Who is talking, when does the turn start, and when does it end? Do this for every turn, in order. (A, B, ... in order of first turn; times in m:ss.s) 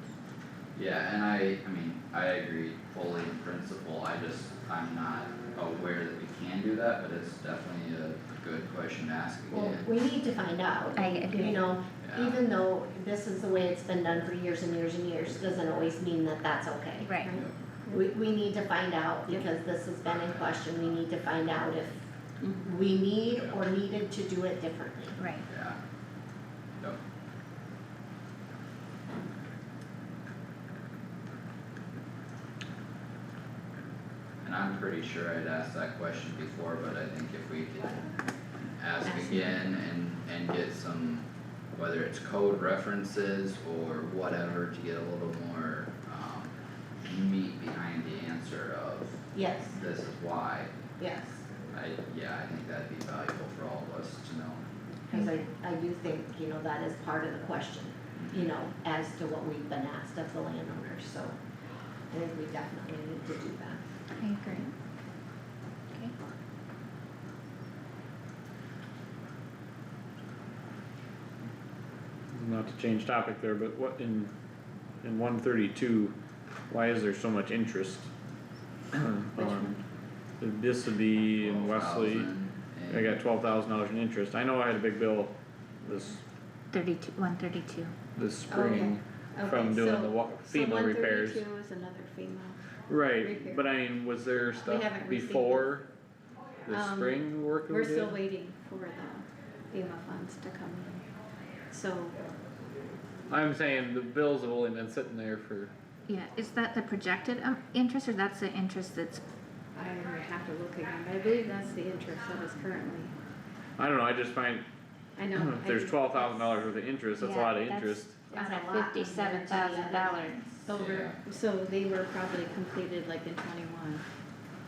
0:00.8-0:09.9 A
0:09.5-0:17.2 B
0:11.0-0:11.6 C
0:12.0-0:12.4 A
0:17.0-0:17.3 C
0:17.2-0:18.0 D
0:17.9-0:22.0 B
0:20.1-0:20.4 A
0:22.4-0:22.7 D
0:22.6-0:25.2 B
0:23.4-0:23.6 A
0:25.2-0:25.5 C
0:25.5-0:25.8 A
0:34.4-0:38.1 A
0:38.8-0:46.5 A
0:39.1-0:39.5 D
0:47.0-0:50.7 A
0:49.3-0:49.8 B
0:51.0-0:51.4 B
0:51.7-0:54.6 A
0:55.1-1:01.4 B
0:55.1-0:55.4 C
0:58.2-0:58.5 A
1:02.1-1:03.8 B
1:04.2-1:04.7 C
1:12.3-1:14.3 E
1:15.0-1:16.2 E
1:16.7-1:18.1 E
1:18.9-1:19.7 E
1:19.4-1:19.8 D
1:20.4-1:22.3 E
1:21.4-1:23.2 A
1:22.9-1:26.2 E
1:26.7-1:28.0 C
1:28.2-1:31.4 E
1:28.5-1:32.6 D
1:32.9-1:35.8 E
1:33.2-1:33.6 D
1:34.6-1:35.7 D
1:36.7-1:38.2 E
1:36.7-1:41.0 D
1:41.7-1:42.2 D
1:43.3-1:45.7 E
1:46.1-1:49.2 C
1:49.8-1:53.1 D
1:53.8-1:54.7 E
1:55.2-1:56.5 D
1:55.3-1:58.2 E
1:57.2-2:00.4 C
1:58.3-2:00.6 B
2:00.7-2:04.0 D
2:00.7-2:01.2 A